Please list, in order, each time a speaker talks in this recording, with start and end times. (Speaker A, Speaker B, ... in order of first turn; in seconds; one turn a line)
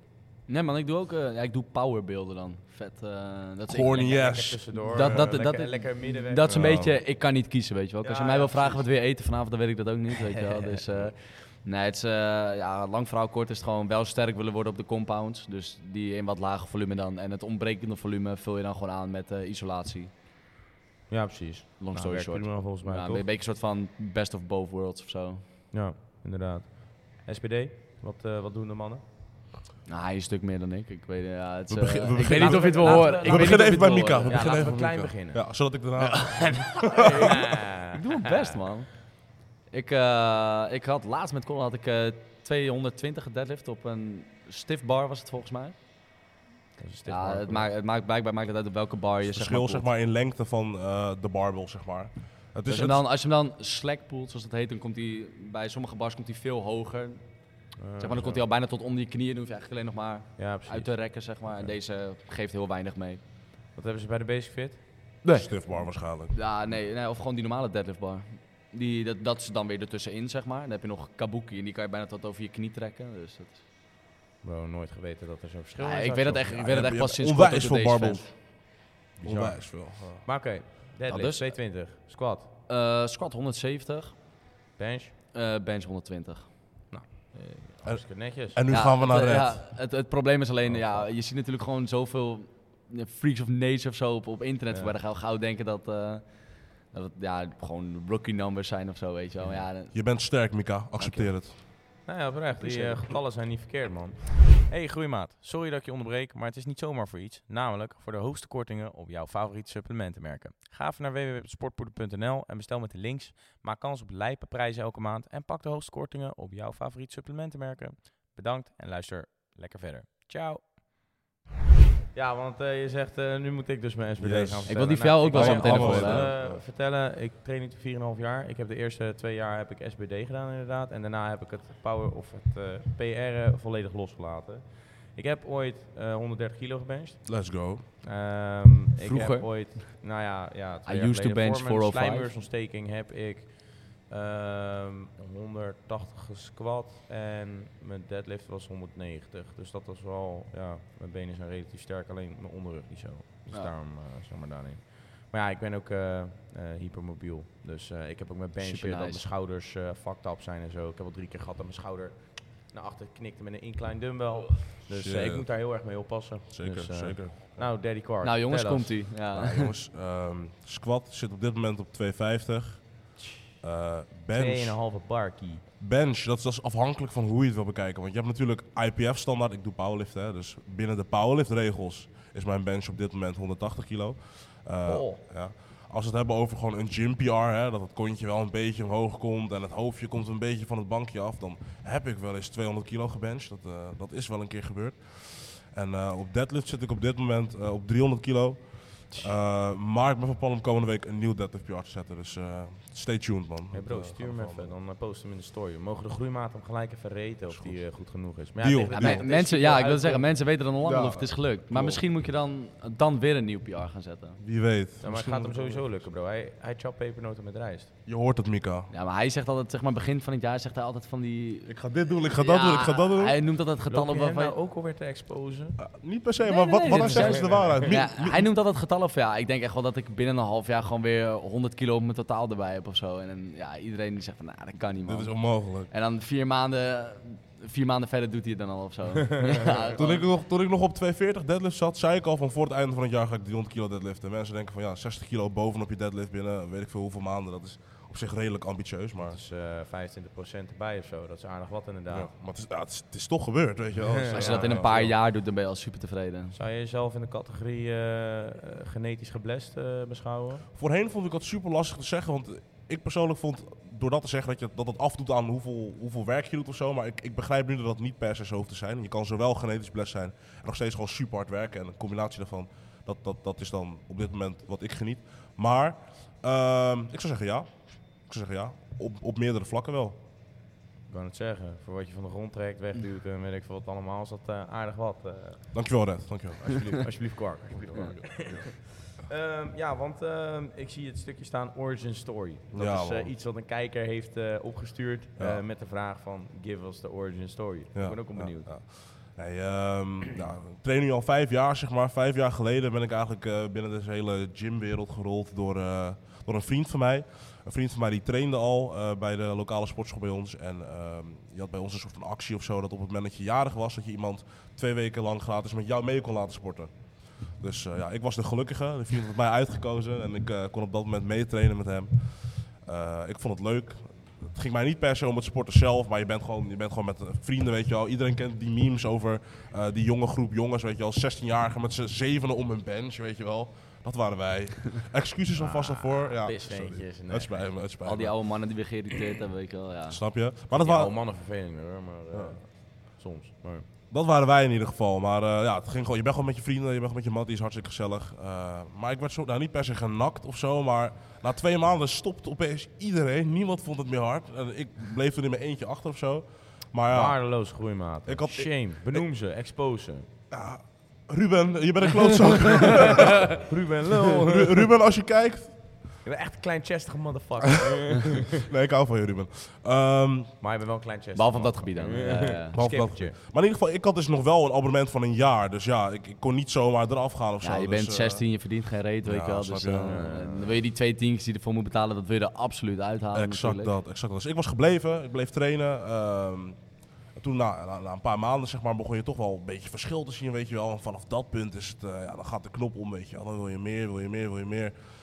Speaker A: 0.5-20.1
Speaker B: 3.7-5.2
Speaker C: 4.1-6.8
Speaker B: 6.5-7.0
Speaker C: 8.0-8.9
Speaker C: 10.3-10.8
Speaker C: 21.1-23.2
Speaker A: 21.8-25.5
Speaker C: 25.7-29.0
Speaker A: 29.8-34.5
Speaker B: 31.7-37.3
Speaker C: 32.1-35.4
Speaker A: 36.0-37.3
Speaker C: 36.8-38.5
Speaker A: 37.9-45.8
Speaker C: 46.8-47.7
Speaker A: 47.1-49.9
Speaker B: 49.2-53.0
Speaker A: 52.7-63.2
Speaker C: 57.8-58.4
Speaker C: 60.4-61.8
Speaker C: 63.8-64.9
Speaker A: 65.2-73.6
Speaker B: 65.3-66.3
Speaker C: 74.4-76.6
Speaker A: 75.8-78.3
Speaker B: 76.5-80.2
Speaker C: 79.2-82.5
Speaker A: 81.1-81.6
Speaker A: 82.7-84.2
Speaker C: 84.8-85.1
Speaker A: 85.3-86.8
Speaker C: 86.9-88.6
Speaker B: 87.8-89.7
Speaker A: 88.7-100.2
Speaker C: 94.7-95.0
Speaker B: 99.9-101.6
Speaker A: 101.0-101.3
Speaker C: 102.0-120.8
Speaker A: 102.7-103.0
Speaker C: 122.1-169.1
Speaker B: 124.2-126.6
Speaker A: 124.7-126.3
Speaker B: 137.2-137.9
Speaker A: 139.0-139.6
Speaker A: 140.8-142.3
Speaker A: 158.6-159.3
Speaker B: 164.9-165.5
Speaker B: 166.5-167.6
Speaker A: 168.2-169.7
Speaker B: 169.3-174.8
Speaker C: 174.3-175.6
Speaker B: 175.8-204.7
Speaker C: 184.8-185.2
Speaker C: 203.7-210.3
Speaker B: 207.5-209.3
Speaker A: 208.9-214.4
Speaker B: 210.8-212.0
Speaker B: 214.4-216.1
Speaker C: 215.0-217.9
Speaker B: 218.1-218.9
Speaker A: 218.9-224.5
Speaker B: 221.7-223.4
Speaker C: 223.9-225.8
Speaker B: 225.8-228.5
Speaker A: 226.4-240.2
Speaker C: 226.9-227.8
Speaker B: 235.1-235.9
Speaker C: 239.4-239.9
Speaker B: 240.0-249.4
Speaker C: 249.2-252.3
Speaker B: 252.1-255.1
Speaker C: 254.3-255.1
Speaker A: 254.3-256.6
Speaker C: 256.5-260.6
Speaker B: 260.7-280.2
Speaker C: 281.1-285.8
Speaker B: 285.7-287.0
Speaker C: 286.6-298.7
Speaker B: 287.9-288.7
Speaker B: 292.7-293.3
Speaker B: 295.4-295.6
Speaker B: 297.9-338.3
Speaker C: 335.5-337.8
Speaker A: 338.0-340.2
Speaker B: 340.1-341.1
Speaker C: 340.7-343.9
Speaker B: 342.3-342.6
Speaker B: 344.1-357.4
Speaker C: 357.1-360.3
Speaker B: 358.2-359.2
Speaker B: 360.5-363.5
Speaker C: 363.1-364.9
Speaker B: 364.4-365.8
Speaker C: 366.2-368.5
Speaker B: 368.2-370.5
Speaker C: 370.6-373.4
Speaker A: 371.3-372.7
Speaker B: 372.7-378.5
Speaker A: 377.6-383.9
Speaker B: 379.2-380.2
Speaker C: 380.1-380.8
Speaker B: 383.3-386.8
Speaker B: 387.3-394.9